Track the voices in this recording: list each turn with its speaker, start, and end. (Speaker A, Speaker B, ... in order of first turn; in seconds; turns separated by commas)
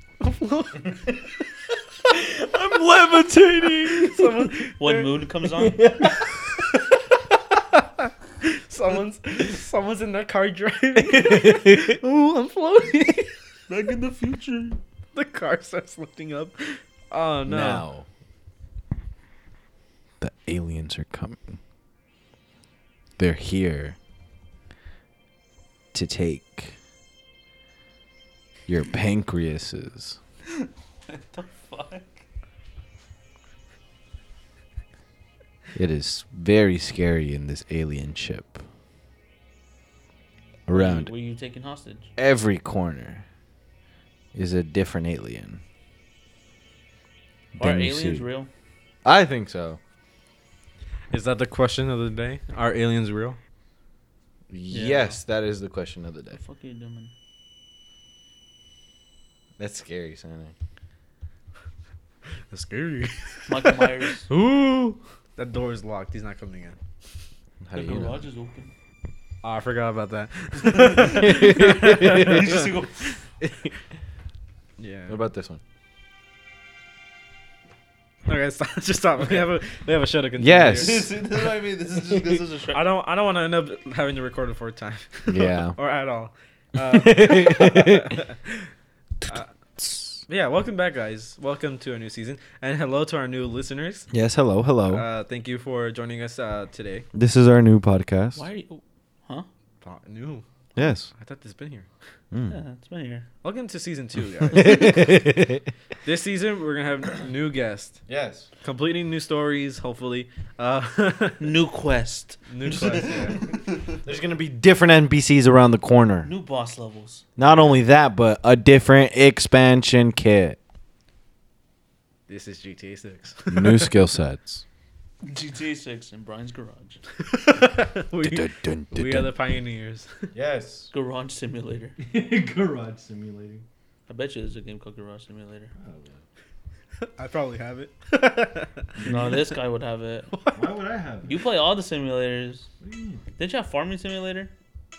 Speaker A: 0.2-1.1, Speaker B: 2.5-4.0, Speaker C: 3.6-5.8, Speaker A: 3.9-5.2, Speaker B: 5.6-6.4, Speaker A: 7.7-13.3, Speaker B: 11.0-11.9, Speaker C: 13.7-14.8, Speaker A: 15.1-17.8, Speaker B: 17.5-18.1, Speaker B: 20.2-21.6, Speaker B: 23.2-24.0, Speaker B: 25.9-26.8, Speaker B: 28.7-30.2, Speaker C: 30.5-32.2, Speaker B: 35.7-38.6, Speaker B: 40.7-41.1, Speaker C: 40.7-42.1, Speaker B: 42.2-43.2, Speaker B: 44.3-45.6, Speaker B: 47.6-48.2, Speaker C: 47.6-48.5, Speaker B: 49.0-49.8, Speaker A: 51.1-53.4, Speaker B: 54.5-56.4, Speaker C: 54.7-55.2, Speaker C: 56.3-57.1, Speaker B: 59.6-60.5, Speaker A: 62.5-64.5, Speaker C: 63.5-64.3, Speaker B: 64.3-65.0, Speaker A: 65.3-66.8, Speaker B: 67.6-68.2, Speaker C: 67.7-68.7, Speaker A: 69.4-72.7, Speaker C: 70.5-73.2, Speaker B: 71.1-72.6, Speaker A: 73.4-73.7, Speaker A: 74.8-75.2, Speaker B: 75.1-75.6, Speaker A: 78.3-81.0, Speaker B: 80.4-81.1, Speaker C: 80.8-82.8, Speaker A: 82.7-88.7, Speaker B: 85.3-85.8, Speaker B: 86.8-88.2, Speaker B: 89.8-90.2, Speaker A: 90.2-94.1, Speaker B: 94.1-95.0, Speaker A: 94.9-97.1, Speaker B: 97.1-98.4, Speaker C: 98.3-99.5, Speaker A: 99.8-100.4, Speaker B: 100.8-101.1, Speaker A: 101.1-101.9, Speaker B: 102.3-102.6, Speaker C: 102.5-103.3, Speaker A: 103.4-105.2, Speaker B: 104.5-105.6, Speaker A: 106.0-108.0, Speaker B: 108.1-108.5, Speaker A: 108.6-111.5, Speaker C: 111.4-114.0, Speaker A: 112.5-113.4, Speaker B: 113.0-113.4, Speaker B: 114.0-116.3, Speaker C: 116.2-117.7, Speaker B: 117.4-120.6, Speaker A: 122.3-124.0, Speaker B: 123.5-124.6, Speaker C: 125.2-127.0, Speaker A: 127.2-130.2, Speaker B: 128.2-129.3, Speaker B: 130.3-130.9, Speaker C: 130.9-131.9, Speaker B: 132.0-133.6, Speaker C: 134.1-135.7, Speaker B: 135.8-136.2, Speaker A: 137.0-139.0, Speaker B: 139.0-139.4, Speaker C: 139.0-140.3, Speaker A: 140.3-140.7, Speaker B: 140.5-141.4, Speaker C: 141.2-142.7, Speaker B: 142.8-143.2, Speaker C: 143.4-144.5